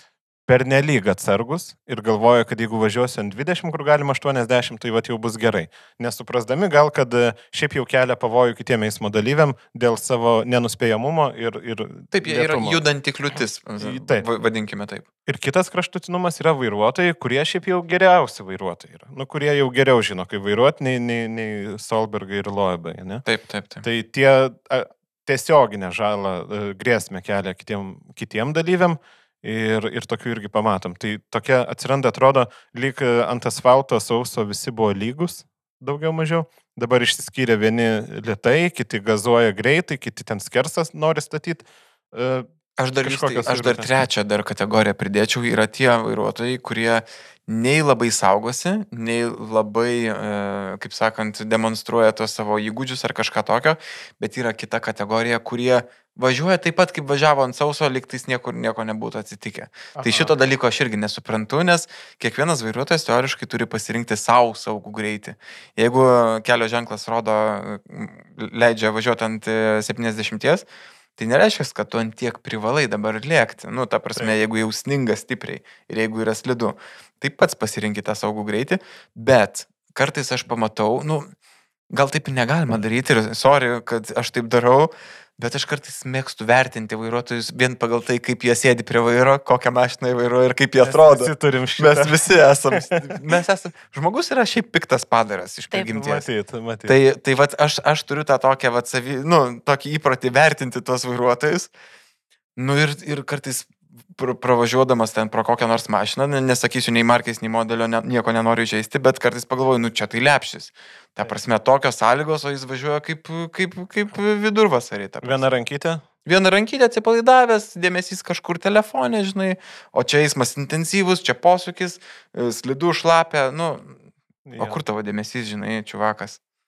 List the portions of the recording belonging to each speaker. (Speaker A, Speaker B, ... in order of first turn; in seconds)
Speaker A: 0.5-12.8, 13.8-14.2, 15.2-23.2, 23.8-42.5, 43.0-43.9, 60.0-60.4, 90.8-92.1, 92.7-93.2, 95.7-96.9, 115.2-116.0, 124.5-124.8
Speaker B: 12.1-15.1, 23.2-23.8, 42.8-70.6, 71.2-81.3, 81.9-96.2, 96.8-101.7, 102.5-115.5, 116.2-124.0, 124.6-126.4